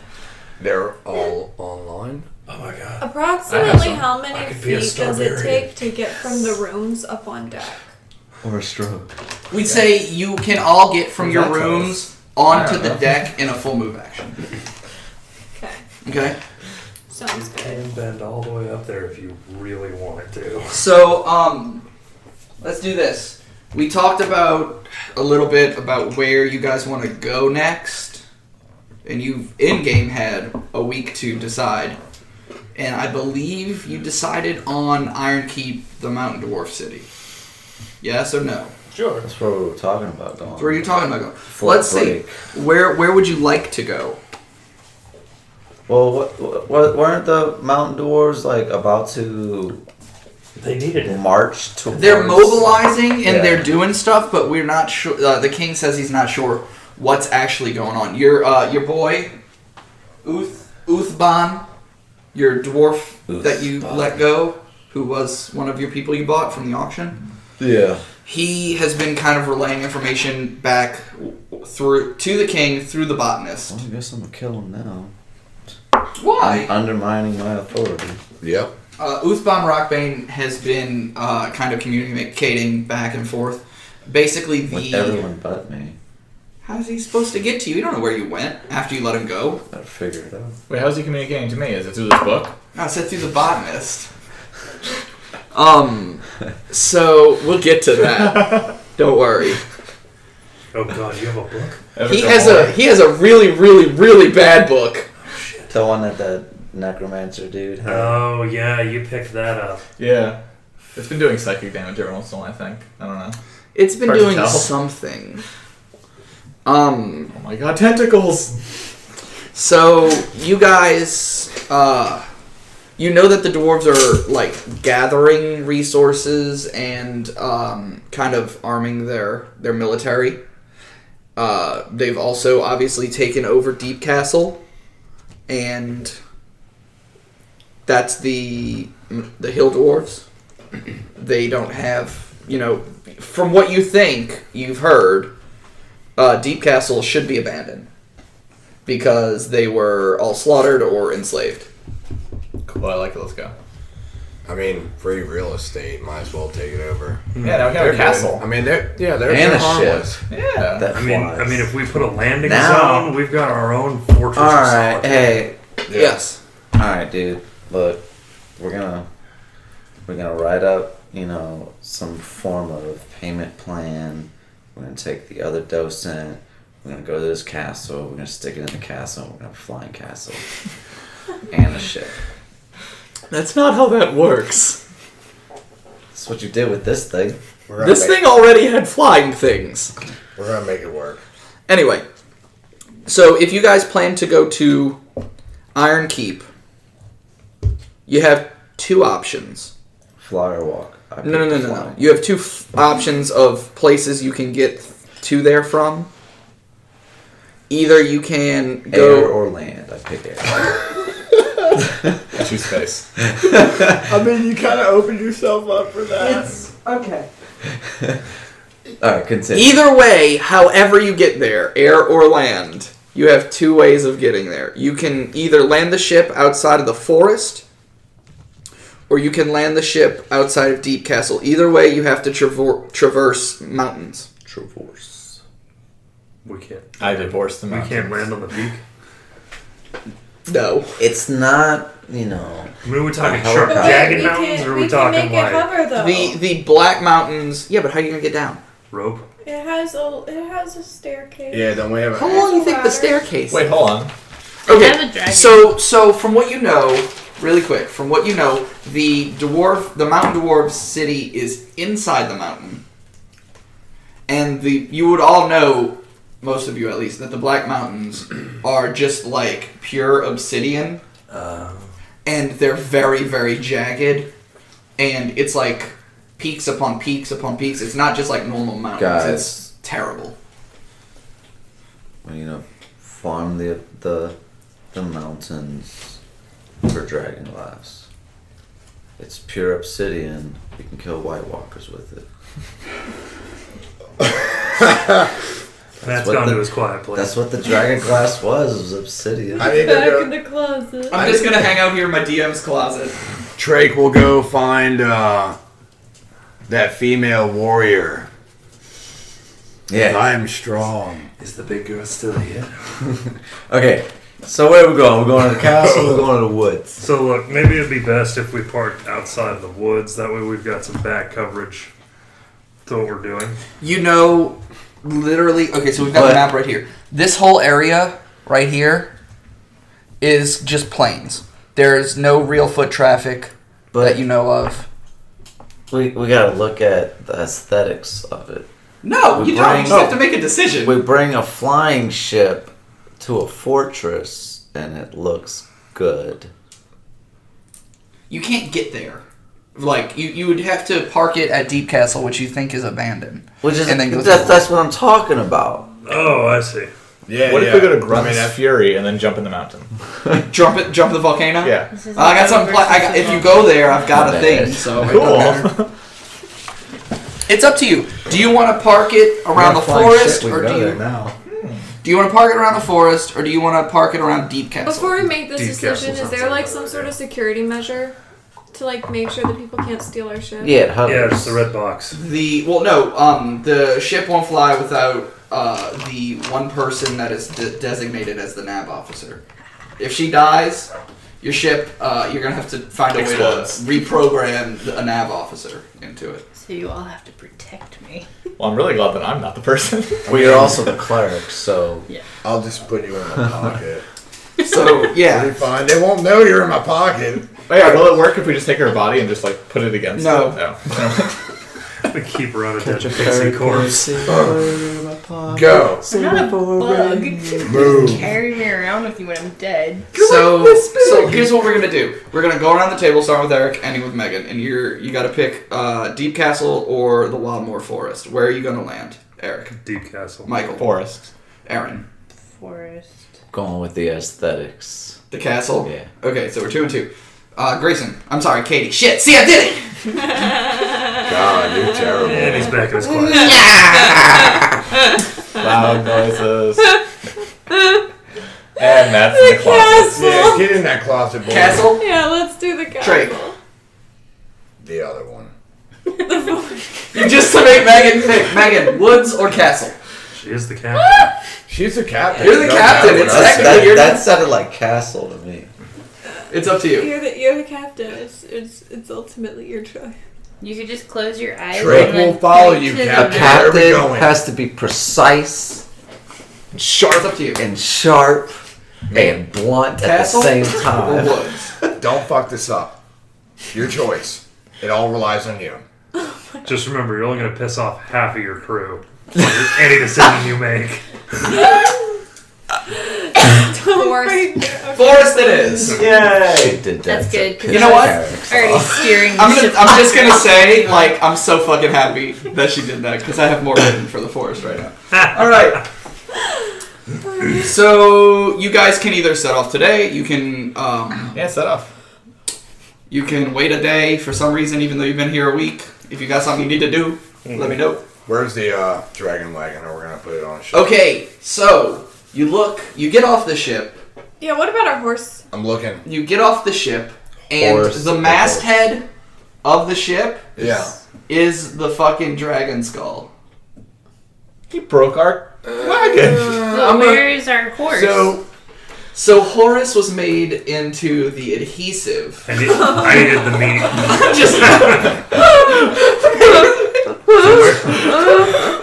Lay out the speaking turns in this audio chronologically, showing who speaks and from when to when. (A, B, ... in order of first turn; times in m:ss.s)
0:00.6-0:02.3 A
0:02.5-0:05.7 B
0:03.0-0:07.8 C
0:03.5-0:04.1 D
0:08.4-0:09.1 E
0:09.5-0:14.4 F
0:11.2-0:11.9 E
0:12.5-0:13.0 D
0:15.6-0:15.8 C
0:16.0-0:16.4 F
0:17.1-0:17.8 C
0:17.3-0:20.8 B
0:20.7-0:21.8 F
0:22.6-0:28.2 F
0:29.0-0:32.0 F
0:32.8-0:37.1 F
0:38.0-0:38.7 F
0:38.9-0:39.2 B
0:39.2-0:42.4 E
0:40.6-0:44.2 F
0:45.9-0:49.8 E
0:50.6-0:51.2 B
0:51.0-0:53.7 E
0:51.9-0:59.4 F
1:00.2-1:01.7 F
1:02.3-1:07.2 F
1:03.3-1:04.2 E
1:07.6-1:08.0 E
1:08.2-1:13.8 F
1:13.7-1:15.1 E
1:16.2-1:16.7 F
1:16.4-1:18.2 E
1:18.4-1:18.7 A
1:19.0-1:25.2 F
1:24.7-1:26.0 E
1:26.6-1:29.6 F
1:29.7-1:30.6 E
1:30.7-1:32.6 D
1:32.8-1:34.1 F
1:35.5-1:39.6 F
1:40.7-1:41.8 B
1:42.0-1:42.8 D
1:42.1-1:45.1 F
1:45.3-1:45.7 B
1:45.7-1:48.3 E
1:47.8-1:49.8 B
1:50.0-1:50.4 D
1:51.0-1:53.4 D
1:53.8-1:55.4 F
1:54.0-1:54.7 D
1:56.6-1:57.3 F
1:57.3-1:58.6 D
1:59.5-2:02.3 F
2:03.0-2:10.4 F
2:11.4-2:14.6 F
2:15.5-2:16.2 F
2:17.9-2:20.2 F
2:21.2-2:25.3 F
2:26.2-2:27.9 F
2:28.9-2:31.7 F
2:32.7-2:33.5 D
2:34.4-2:40.2 A
2:37.4-2:37.8 B
2:37.4-2:38.5 D
2:39.2-2:40.1 E
2:40.3-2:40.9 D
2:40.7-2:41.8 E
2:40.9-2:45.4 B
2:42.4-2:43.2 E
2:44.3-2:45.6 E
2:45.9-2:46.2 A
2:45.9-2:46.4 F
2:46.8-2:48.0 E
2:48.6-2:49.1 E
2:50.1-3:00.4 E
3:01.5-3:02.1 E
3:03.3-3:04.8 F
3:06.1-3:07.4 E
3:07.7-3:08.2 A
3:07.8-3:09.9 F
3:10.4-3:11.2 A
3:11.7-3:12.1 F
3:13.1-3:15.0 F
3:15.8-3:16.5 F
3:18.1-3:19.7 F
3:20.2-3:22.2 E
3:21.2-3:26.1 F
3:27.7-3:29.3 F
3:28.9-3:30.8 E
3:32.4-3:33.0 D
3:33.3-3:34.1 E
3:34.0-3:36.7 A
3:36.2-3:37.2 F
3:37.6-3:38.2 E
3:39.0-3:39.8 E
3:39.5-3:47.6 F
3:49.1-3:54.3 F
3:54.5-3:55.4 E
3:56.4-3:58.8 B
3:57.0-3:58.3 D
4:00.5-4:01.0 F
4:01.0-4:04.4 E
4:02.8-4:05.7 B
4:03.6-4:06.4 C
4:06.0-4:08.6 F
4:08.9-4:09.3 B
4:09.4-4:13.2 C
4:11.5-4:12.4 A
4:12.2-4:13.8 F
4:13.5-4:14.1 D
4:14.7-4:22.8 F
4:14.7-4:15.7 G
4:24.3-4:31.0 F
4:31.3-4:31.9 B
4:32.2-4:34.3 F
4:35.0-4:40.4 F
4:39.0-4:39.6 E
4:42.2-4:44.4 E
4:44.9-4:46.2 E
4:46.8-4:48.1 E
4:49.2-4:52.3 E
4:56.0-4:57.4 B
4:56.0-5:00.0 E
4:59.5-5:01.3 C
4:59.6-5:00.4 A
5:01.1-5:03.2 F
5:01.2-5:01.4 A
5:03.6-5:05.6 A
5:06.7-5:08.3 A
5:09.9-5:10.3 E
5:09.9-5:11.3 A
5:11.4-5:13.0 B
5:13.1-5:17.0 E
5:17.0-5:21.9 B
5:22.9-5:23.6 B
5:23.8-5:29.1 F
5:26.1-5:26.5 E
5:30.2-5:34.9 F
5:33.9-5:34.2 E
5:35.9-5:38.7 E
5:39.0-5:41.0 F
5:39.3-5:46.5 E
5:48.3-5:49.2 F
5:49.8-5:54.7 F
5:53.6-5:55.9 E
5:56.0-5:56.9 B
5:57.3-5:58.6 A
5:57.4-5:59.9 D
6:00.5-6:05.8 F
6:01.6-6:01.9 D
6:01.9-6:04.0 G
6:04.1-6:05.0 E
6:05.0-6:05.9 D
6:07.5-6:11.0 F
6:09.6-6:11.4 E
6:11.5-6:11.8 D
6:12.0-6:15.1 F
6:14.8-6:18.2 C
6:15.5-6:17.2 B
6:18.7-6:20.8 C
6:20.6-6:21.6 E
6:21.0-6:22.2 B
6:22.1-6:29.4 F
6:30.0-6:36.4 F
6:33.1-6:33.8 D
6:36.6-6:38.3 G
6:38.6-6:40.7 D
6:40.3-6:40.8 A
6:40.3-6:42.1 E
6:42.4-6:44.0 A
6:44.6-6:45.6 F
6:45.2-6:47.6 A
6:47.7-6:51.4 D
6:47.8-6:48.2 F
6:50.2-6:50.6 F
6:52.1-6:54.2 B
6:52.8-6:58.2 E
6:55.5-6:56.0 A
6:56.1-7:00.1 G
6:57.6-6:58.3 A
7:00.1-7:09.8 F
7:09.8-7:10.5 B
7:10.4-7:10.9 F
7:10.8-7:11.3 D
7:11.7-7:12.1 F
7:12.5-7:13.1 G
7:13.5-7:15.2 E
7:15.3-7:20.2 F
7:15.8-7:16.1 E
7:21.2-7:22.8 A
7:22.2-7:23.7 B
7:25.6-7:27.0 D
7:28.8-7:30.4 D
7:29.3-7:30.8 C
7:30.1-7:32.0 A
7:31.5-7:32.0 F
7:32.0-7:33.6 C
7:33.0-7:33.4 F
7:34.8-7:35.5 A
7:36.2-7:37.5 C
7:37.1-7:40.0 F
7:40.3-7:41.3 B
7:41.7-7:44.1 A
7:42.4-7:44.3 F
7:42.9-7:45.7 E
7:46.5-7:47.1 F
7:46.9-7:50.2 C
7:50.6-7:53.8 G
7:51.7-7:54.4 A
7:51.8-7:52.2 E
7:53.1-7:55.8 E
7:56.7-7:57.6 F
7:57.6-7:58.6 E
7:59.1-8:01.4 E
8:00.0-8:01.7 F
8:01.9-8:03.0 A
8:03.7-8:05.8 A
8:06.6-8:11.6 B
8:13.1-8:16.1 C
8:15.0-8:16.0 F
8:15.9-8:16.2 B
8:16.0-8:19.2 E
8:17.0-8:21.1 G
8:17.7-8:18.2 F
8:19.3-8:25.8 F
8:27.6-8:31.4 F
8:31.3-8:31.9 D
8:33.1-8:38.0 F
8:37.4-8:37.8 B
8:38.3-8:41.0 A
8:40.7-8:44.0 F
8:44.4-8:45.4 C
8:45.5-8:46.0 A
8:46.0-8:49.1 F
8:47.5-8:48.8 E
8:49.6-8:53.3 F
8:50.6-8:51.0 A
8:54.7-8:56.8 D
8:56.6-8:58.4 G
8:58.0-8:58.3 F
8:59.1-9:02.5 F
9:02.5-9:05.2 B
9:04.1-9:05.1 F
9:06.4-9:06.7 F
9:07.3-9:08.4 A